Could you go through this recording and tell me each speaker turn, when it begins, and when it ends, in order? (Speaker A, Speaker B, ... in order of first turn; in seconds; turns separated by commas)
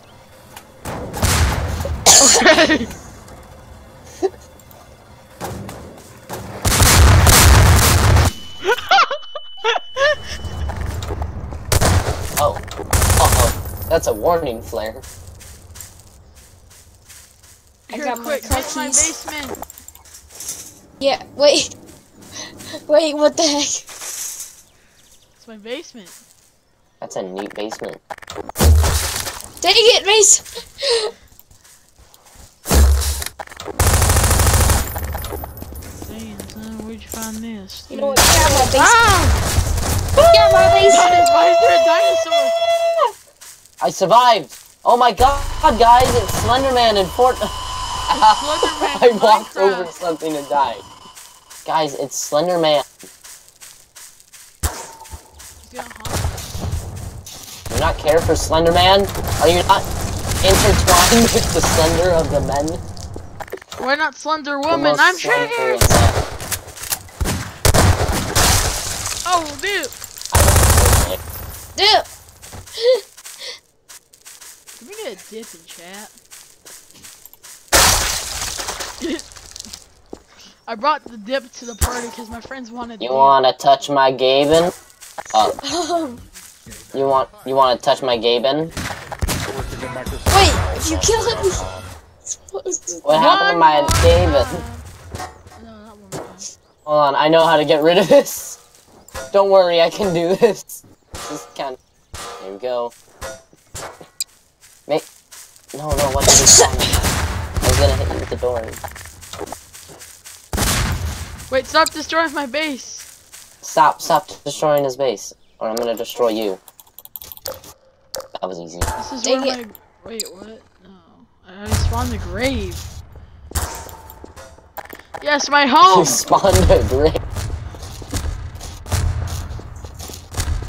Speaker A: 2.1-2.9, Speaker A: 8.6-10.2, Speaker B: 12.4-12.6, Speaker B: 13.2-15.0, Speaker A: 17.9-19.6, Speaker C: 17.9-19.1, Speaker C: 21.0-21.8, Speaker C: 22.9-23.9, Speaker A: 25.4-26.2, Speaker B: 27.0-28.0, Speaker C: 29.6-31.1, Speaker A: 36.0-39.4, Speaker C: 37.9-39.0, Speaker A: 40.2-42.6, Speaker C: 40.3-41.2, Speaker B: 43.8-47.5, Speaker B: 48.1-50.9, Speaker A: 48.1-49.9, Speaker B: 51.6-52.9, Speaker A: 55.6-56.6, Speaker B: 57.7-59.9, Speaker B: 60.4-62.8, Speaker A: 63.8-66.0, Speaker B: 64.7-66.2, Speaker A: 69.2-70.0, Speaker B: 70.3-71.2, Speaker C: 71.8-72.1, Speaker C: 72.8-73.0, Speaker A: 74.8-76.1, Speaker A: 79.0-79.2, Speaker A: 80.7-83.4, Speaker B: 83.0-84.7, Speaker C: 85.6-86.2, Speaker B: 86.9-88.7, Speaker C: 90.3-91.7, Speaker C: 92.3-93.4, Speaker B: 93.0-94.6, Speaker A: 93.1-94.8, Speaker A: 95.6-96.5, Speaker B: 96.9-98.6, Speaker B: 99.3-101.8, Speaker B: 102.4-102.9, Speaker B: 105.7-107.0, Speaker B: 107.6-108.8, Speaker A: 111.5-113.1, Speaker B: 113.6-116.6, Speaker B: 118.4-118.9, Speaker A: 119.0-122.9, Speaker C: 119.2-119.6, Speaker A: 125.2-126.3, Speaker B: 125.8-127.2